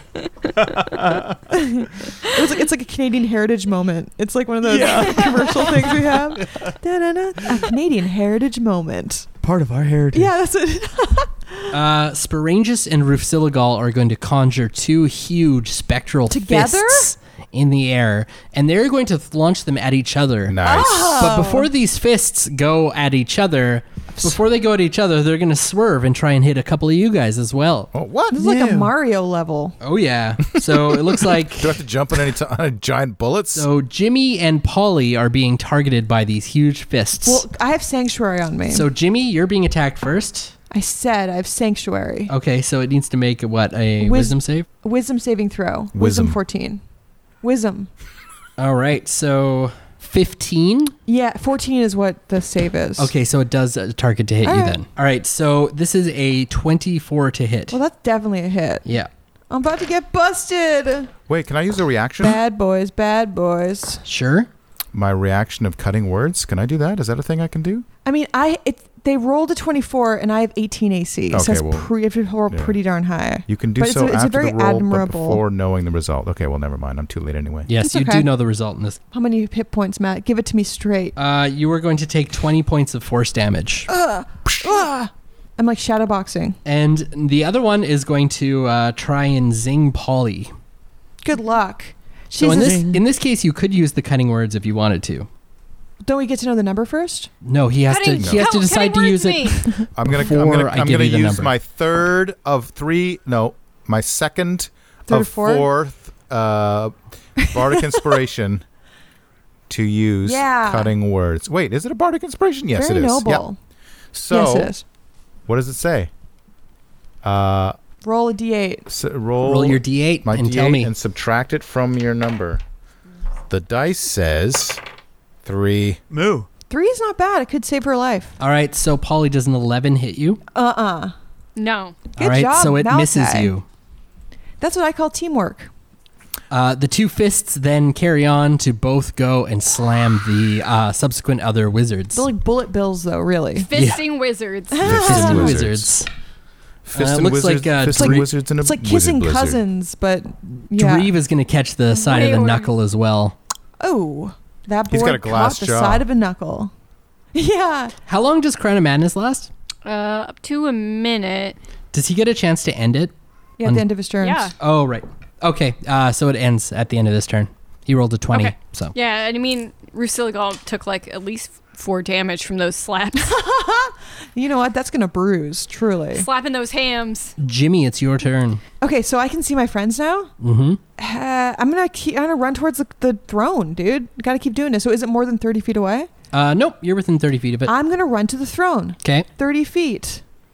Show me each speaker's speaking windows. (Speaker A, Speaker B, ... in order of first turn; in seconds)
Speaker A: 0.2-0.5, 5.3-5.6, 97.9-99.7, 131.6-132.0, 143.6-145.1, 151.9-152.7, 159.8-161.6, 164.2-164.5, 168.3-173.4, 176.1-177.3
Speaker B: 0.6-1.4, 4.6-6.7, 9.4-10.3, 28.5-28.9, 92.4-93.0, 126.1-126.5
Speaker C: 1.5-9.3, 10.1-11.8, 16.3-17.1, 20.6-21.7, 28.3-29.8, 37.2-38.9, 40.7-42.3, 44.0-46.8, 47.4-47.9, 51.1-53.1, 54.4-54.8, 57.7-58.9, 59.5-61.1, 62.2-64.0, 68.0-75.4, 77.8-78.3, 79.1-81.2, 83.9-86.6, 91.2-92.8, 96.0-97.3, 105.1-105.7, 107.5-108.2, 110.2-110.9, 112.8-113.6, 114.3-114.8, 118.0-118.9, 126.7-128.4, 130.5-131.1, 132.2-133.5, 134.6-135.7, 142.1-143.7, 144.7-145.6, 147.9-151.1, 153.8-156.7, 157.3-157.9, 163.6-164.5, 173.2-176.3, 178.8-180.3, 181.0-186.1, 187.7-190.2
Speaker D: 11.7-27.9, 29.8-31.8, 33.5-37.4, 38.7-40.5, 42.3-44.7, 48.6-51.0, 53.0-57.8, 58.9-59.1, 64.1-64.5, 77.7-79.0, 81.2-83.9, 86.7-90.5, 92.4-95.3, 97.4-101.5, 119.4-120.9, 128.4-130.4, 132.2-133.7, 136.5-142.3, 143.7-144.0, 144.9-146.1, 146.9-148.3, 150.7-153.4, 158.1-159.5, 161.9-163.1, 164.6-168.9, 177.4-178.6, 180.4-180.8, 186.3-187.7
Speaker E: 20.5-21.3, 27.9-28.5, 30.7-33.7, 45.9-46.4, 61.3-62.4, 64.9-67.9, 71.3-71.9, 72.5-72.8, 73.5-77.7, 98.2-98.5, 100.0-108.6, 109.7-113.5, 114.1-114.7, 115.5-116.1, 117.2-117.8, 118.9-122.6, 123.5-124.8, 125.5-126.0, 144.8-145.9, 146.9-149.6, 154.9-156.0